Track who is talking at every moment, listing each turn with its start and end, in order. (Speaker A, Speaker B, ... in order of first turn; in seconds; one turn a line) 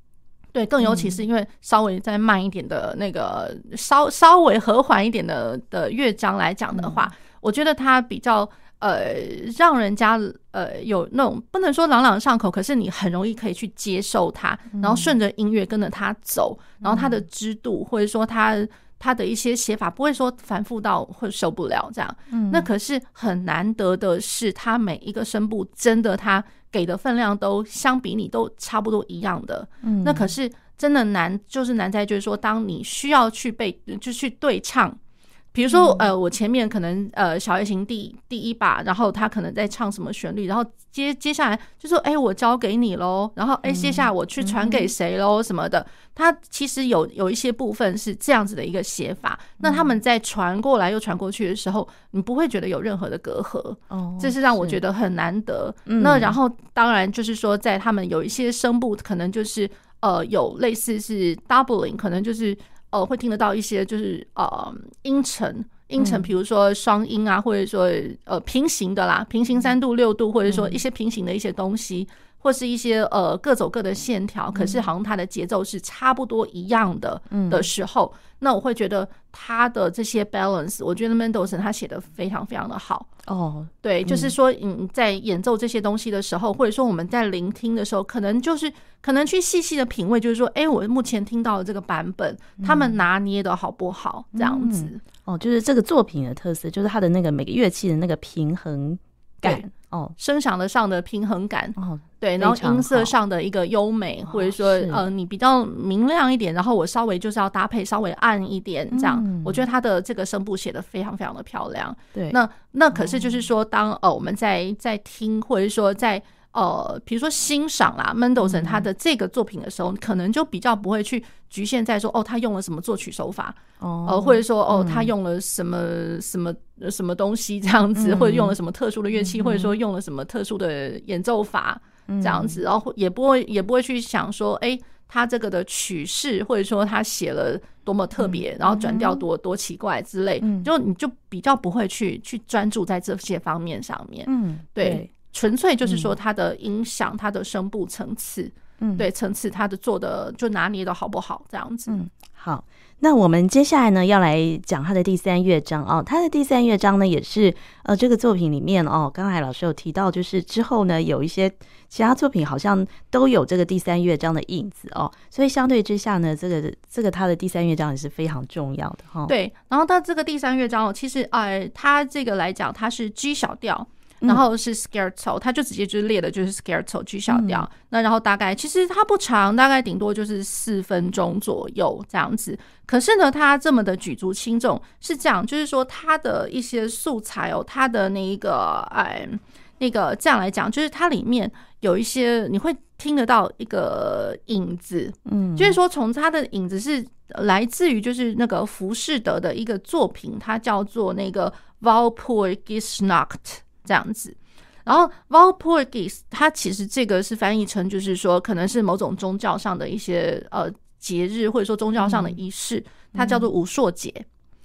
Speaker A: 0.5-35.0
Speaker B: 0.8-1.2
Speaker B: 6.7-7.0
Speaker B: 14.7-15.1
Speaker B: 16.8-17.2
Speaker B: 22.3-22.7
Speaker B: 29.8-30.3
Speaker A: 35.5-83.1
Speaker B: 35.7-36.1
Speaker B: 43.6-44.9
Speaker B: 49.6-49.9
Speaker B: 53.9-54.8
Speaker B: 55.9-56.4
Speaker B: 66.0-66.3
Speaker B: 70.5-70.8
Speaker B: 74.5-74.8
Speaker B: 77.3-77.7
Speaker B: 83.2-84.3
Speaker A: 83.8-95.0
Speaker B: 92.6-93.0
Speaker B: 94.3-100.2
Speaker A: 100.2-152.0
Speaker B: 101.8-103.1
Speaker B: 104.3-105.0
Speaker B: 108.9-109.7
Speaker B: 112.9-113.4
Speaker B: 118.4-118.8
Speaker B: 123.8-125.1
Speaker B: 128.0-128.6
Speaker B: 129.2-129.7
Speaker B: 132.1-132.6
Speaker B: 138.2-139.2
Speaker B: 140.4-140.7
Speaker B: 144.3-145.1
Speaker B: 145.8-146.1
Speaker B: 148.8-149.1
Speaker B: 151.9-169.3
Speaker A: 169.3-214.3
Speaker B: 177.3-177.7
Speaker B: 195.3-195.8
Speaker B: 212.0-212.4
Speaker B: 213.1-213.5